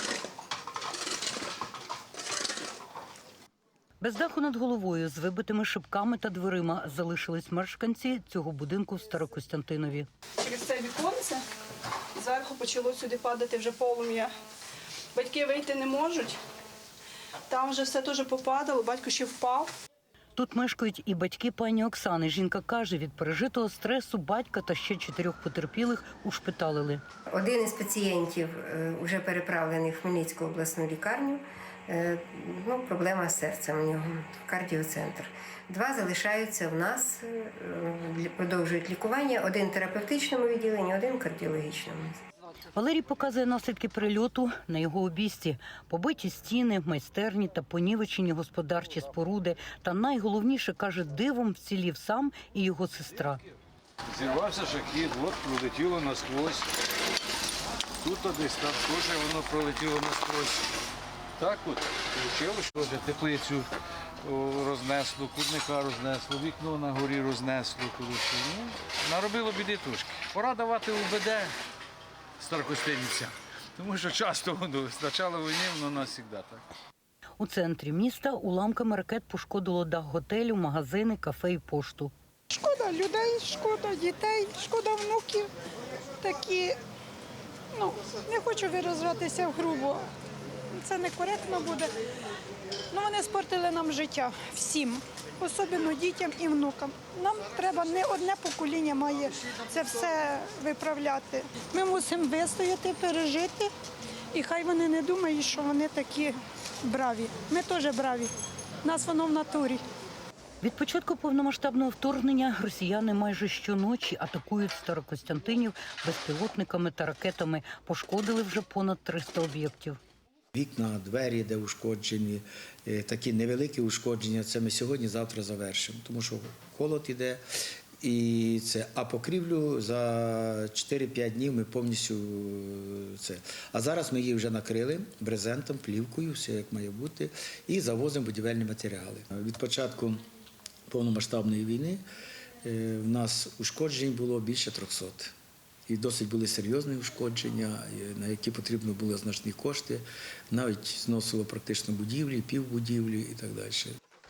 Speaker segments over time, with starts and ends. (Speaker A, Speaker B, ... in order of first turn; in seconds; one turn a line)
Speaker A: 4.0-10.1
Speaker B: 10.4-11.4
Speaker B: 12.2-14.3
Speaker B: 15.1-16.4
Speaker B: 17.5-19.7
Speaker A: 20.4-27.0
Speaker C: 27.3-42.2
Speaker A: 42.7-53.4
Speaker D: 54.1-56.7
Speaker D: 58.0-60.6
Speaker D: 61.4-63.7
Speaker D: 64.2-71.5
Speaker D: 72.4-76.6
Speaker A: 77.4-82.1
Speaker E: 82.5-85.5
Speaker E: 86.2-86.8
Speaker E: 87.7-90.0
Speaker E: 90.8-91.9
Speaker E: 92.9-103.7
Speaker E: 104.3-108.3
Speaker E: 108.8-109.8
Speaker A: 110.6-120.0
Speaker F: 120.5-127.4
Speaker F: 128.0-140.2
Speaker F: 140.9-142.0
Speaker F: 142.6-145.3
Speaker F: 145.9-154.0